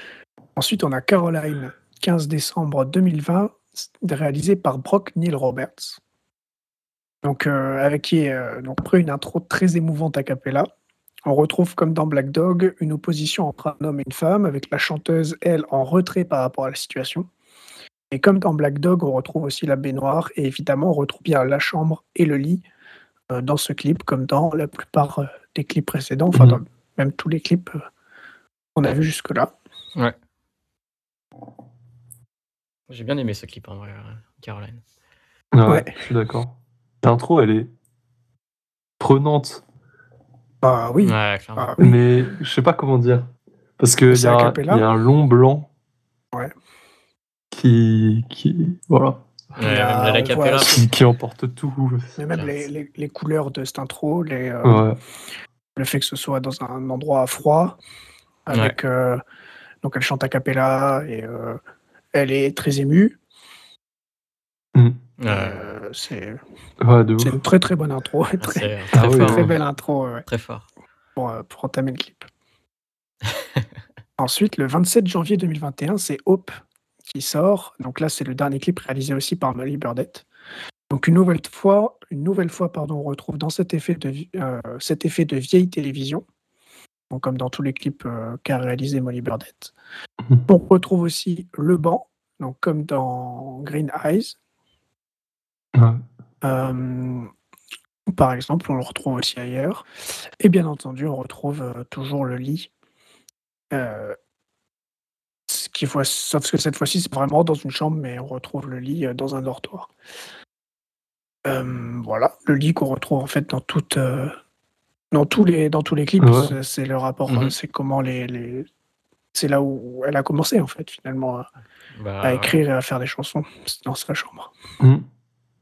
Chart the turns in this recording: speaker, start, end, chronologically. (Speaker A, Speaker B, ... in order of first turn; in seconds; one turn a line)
Speaker A: 0.6-6.0
Speaker A: 7.2-10.7
Speaker A: 11.2-17.3
Speaker A: 18.1-22.6
Speaker A: 23.3-27.8
Speaker B: 26.3-26.6
Speaker A: 28.8-29.5
Speaker C: 32.9-34.8
Speaker B: 35.5-37.7
Speaker A: 35.7-35.9
Speaker B: 39.0-39.6
Speaker A: 40.6-42.0
Speaker C: 41.0-41.7
Speaker B: 41.8-45.7
Speaker A: 44.1-44.8
Speaker B: 47.5-49.2
Speaker C: 49.5-50.8
Speaker A: 49.6-50.8
Speaker B: 50.6-52.2
Speaker A: 52.1-54.9
Speaker B: 54.6-55.0
Speaker A: 55.8-57.8
Speaker A: 58.5-59.2
Speaker A: 59.8-61.6
Speaker A: 62.1-63.2
Speaker C: 65.2-65.7
Speaker A: 65.3-66.4
Speaker B: 66.8-67.4
Speaker A: 67.2-70.2
Speaker C: 68.4-69.6
Speaker B: 68.9-69.5
Speaker C: 70.2-70.7
Speaker A: 71.2-72.3
Speaker C: 73.3-73.6
Speaker A: 74.2-76.5
Speaker A: 77.1-80.2
Speaker A: 80.9-86.2
Speaker A: 87.1-89.7
Speaker A: 90.5-94.4
Speaker B: 95.7-96.0
Speaker A: 96.4-97.3
Speaker A: 98.1-99.8
Speaker A: 100.4-102.7
Speaker A: 103.7-104.2
Speaker A: 105.5-109.9
Speaker A: 111.4-114.3
Speaker A: 115.1-118.7
Speaker B: 116.2-116.5
Speaker C: 117.3-117.5
Speaker A: 119.3-121.5
Speaker C: 121.9-122.6
Speaker A: 122.2-124.5